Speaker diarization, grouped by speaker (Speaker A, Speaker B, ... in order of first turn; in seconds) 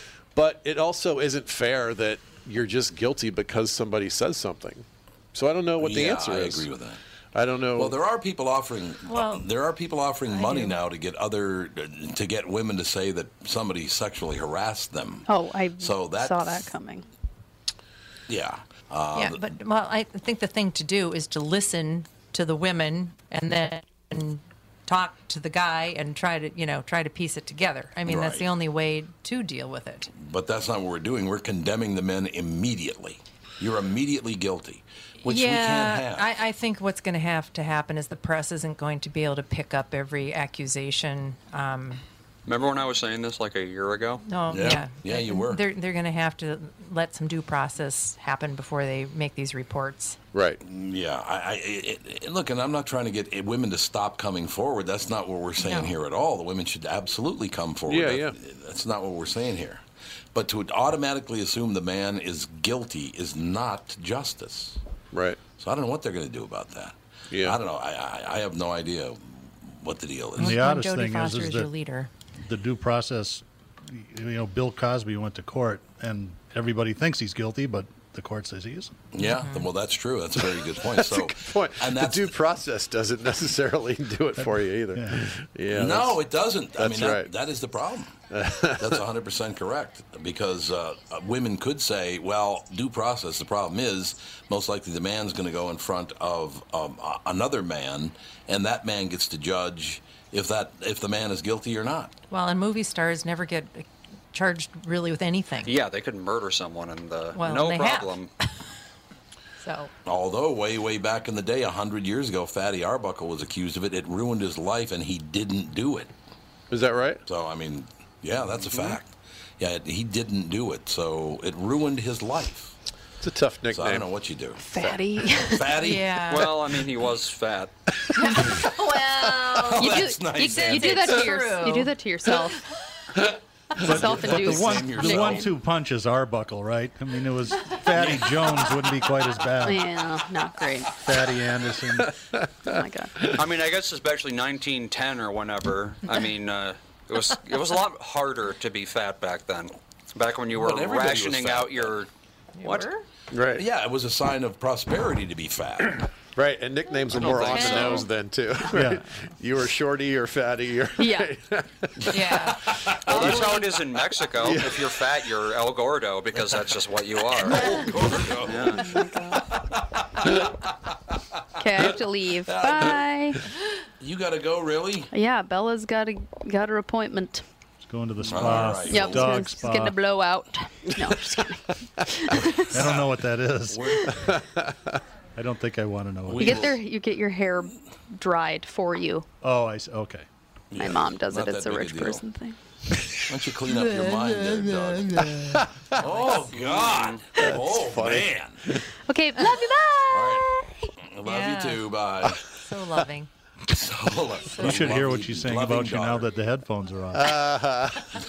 Speaker A: 0.3-6.7, 7.3-8.0, 50.3-50.6, 57.9-58.4, 65.1-65.4, 67.3-67.6, 80.8-87.3, 88.3-89.0, 116.7-117.2, 123.2-124.1, 124.8-125.0, 142.0-143.4, 153.3-153.6, 156.4-165.0, 180.9-181.5, 184.2-185.0, 197.4-198.8, 207.1-208.2
Speaker B: 5.8-7.0, 7.8-15.3, 15.8-16.7, 18.3-19.4, 28.1-28.5, 30.1-36.3, 44.5-45.6, 50.6-59.8, 60.3-64.8, 65.6-70.6, 79.1-82.3, 85.7-88.2, 88.8-102.2, 110.0-116.1, 117.2-122.8, 123.7-124.6, 125.5-126.2, 129.4-131.2, 133.8-135.5, 137.9-138.3, 150.5-151.9, 153.6-156.1, 162.8-163.1, 167.4-169.0, 169.6-170.4, 172.4-173.0, 174.0-175.1, 178.3-179.4, 182.3-183.1, 183.7-184.3, 186.3-186.8, 190.7-192.2, 193.3-198.6, 200.1-200.5, 201.0-202.4, 203.7-206.3
Speaker C: 9.1-9.5, 10.3-10.8, 19.1-30.1, 35.2-42.0, 44.2-50.2, 55.6-56.0, 70.4-72.1, 79.2-79.7, 102.3-105.8, 107.3-108.5, 109.6-109.9, 125.7-126.6, 128.2-132.5, 152.6-153.1, 157.4-158.1, 162.1-163.7, 167.6-167.9, 199.3-199.7, 201.2-202.0, 202.5-203.3, 204.5-204.9
Speaker D: 15.3-17.1, 124.6-125.9, 128.3-132.6, 133.8-135.5, 139.6-141.1, 142.7-143.3, 161.0-161.3, 167.7-169.6, 171.6-173.4, 175.1-177.4, 178.3-182.9, 186.4-189.3, 190.8-192.6, 199.1-200.9
Speaker E: 42.5-44.2, 105.7-108.3, 126.3-127.7, 143.3-152.1, 152.6-152.9, 157.1-158.1, 163.1-167.7, 168.4-168.9, 196.5-197.2
Speaker F: 70.4-71.7, 72.4-79.0, 84.9-85.2, 133.8-140.1, 140.9-142.1, 158.7-159.0, 177.8-180.0, 182.7-184.1, 185.4-186.8, 189.4-190.3, 204.6-207.5